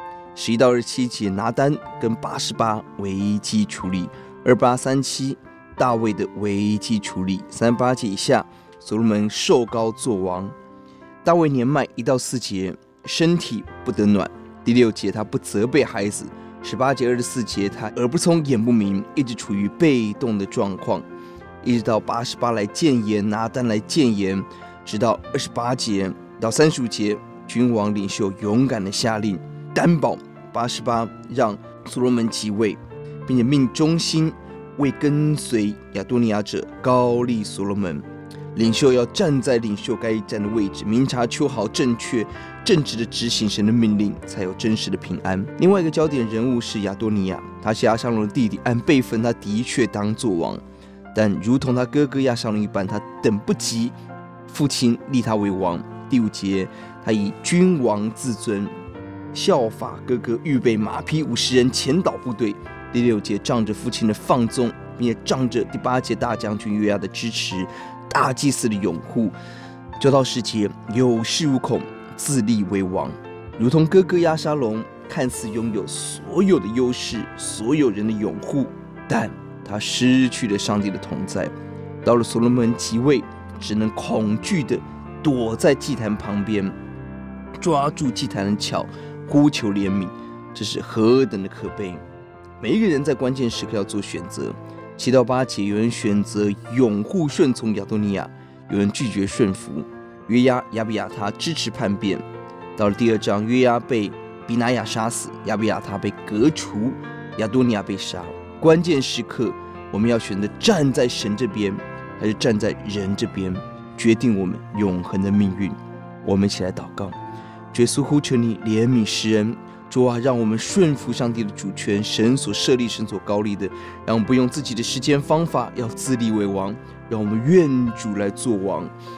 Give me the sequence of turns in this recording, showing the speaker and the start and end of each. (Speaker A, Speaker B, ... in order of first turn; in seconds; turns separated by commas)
Speaker A: 0.3-10.5, Speaker A: 11.2-21.0, Speaker A: 21.6-50.6, Speaker A: 51.1-53.9, Speaker A: 54.5-58.7, Speaker A: 59.3-69.3, Speaker A: 70.0-86.7, Speaker A: 87.6-92.0, Speaker A: 92.6-102.2, Speaker A: 102.8-117.2, Speaker A: 117.7-128.9